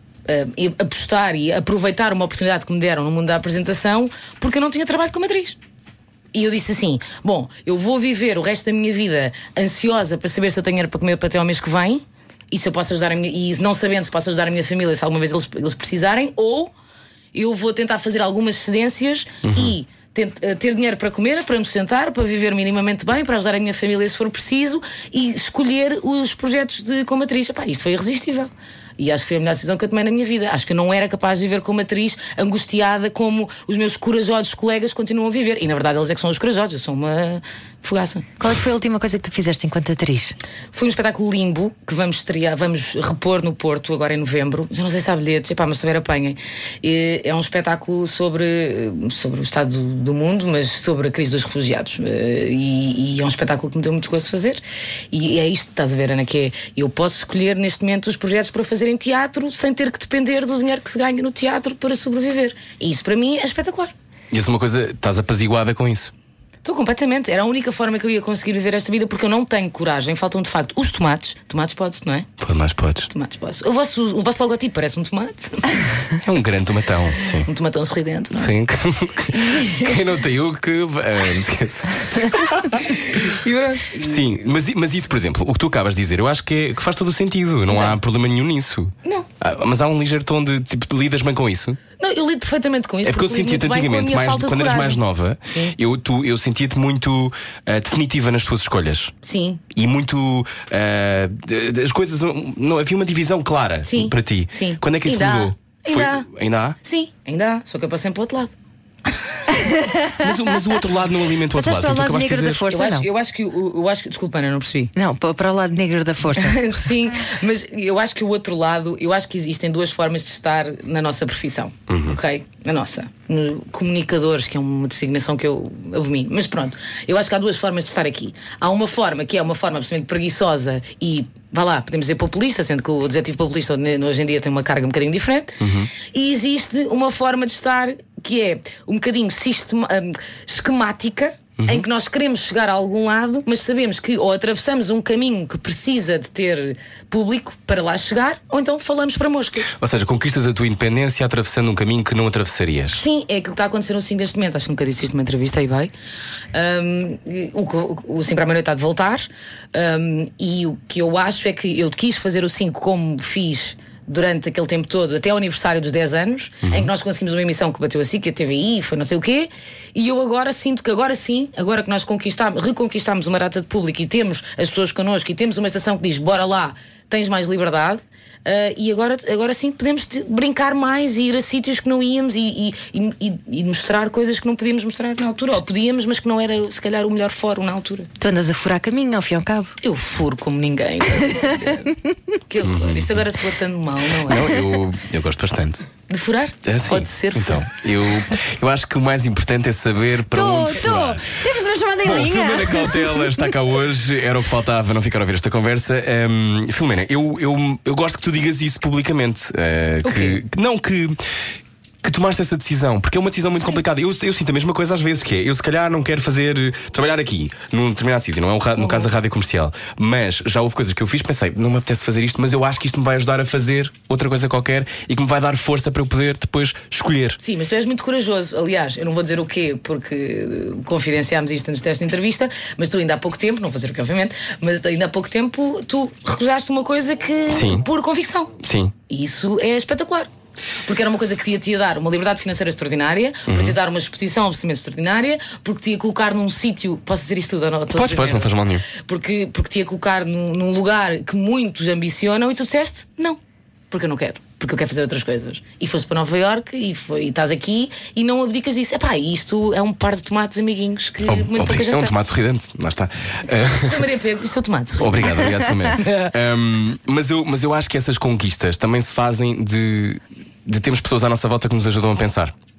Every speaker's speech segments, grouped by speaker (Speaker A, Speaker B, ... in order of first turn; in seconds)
Speaker A: 0.3-5.6, 6.3-16.7, 17.3-38.3, 40.7-63.9, 66.6-72.3, 73.1-75.9, 77.5-78.5, 79.3-80.0, 82.9-84.2, 87.7-88.0, 92.0-95.8, 99.2-99.6, 103.9-106.3, 106.8-108.5, 112.7-114.9, 116.3-149.7, 152.9-155.9, 156.5-188.1, 189.8-192.0, 192.5-194.5, 196.1-197.7, 210.0-210.4, 218.8-219.1, 227.4-238.5, 239.1-240.3, 240.8-253.4, 253.9-262.1, 263.6-266.3
Speaker B: 19.4-19.8, 64.3-66.1, 72.4-73.1, 76.2-77.5, 78.3-83.3, 84.0-91.8, 93.0-99.1, 99.8-106.8, 110.2-112.6, 121.9-122.2, 135.6-135.9, 141.6-141.9, 149.7-153.0, 166.6-166.9, 192.6-193.2, 194.2-195.8, 196.6-201.4, 202.0-211.2, 212.0-227.4, 237.5-237.8, 238.6-238.9, 243.5-243.8, 247.9-248.9, 261.3-264.1, 265.0-272.5
Speaker C: 38.4-40.4, 109.5-110.2, 111.5-113.1, 115.0-116.6, 188.2-189.7, 200.3-203.3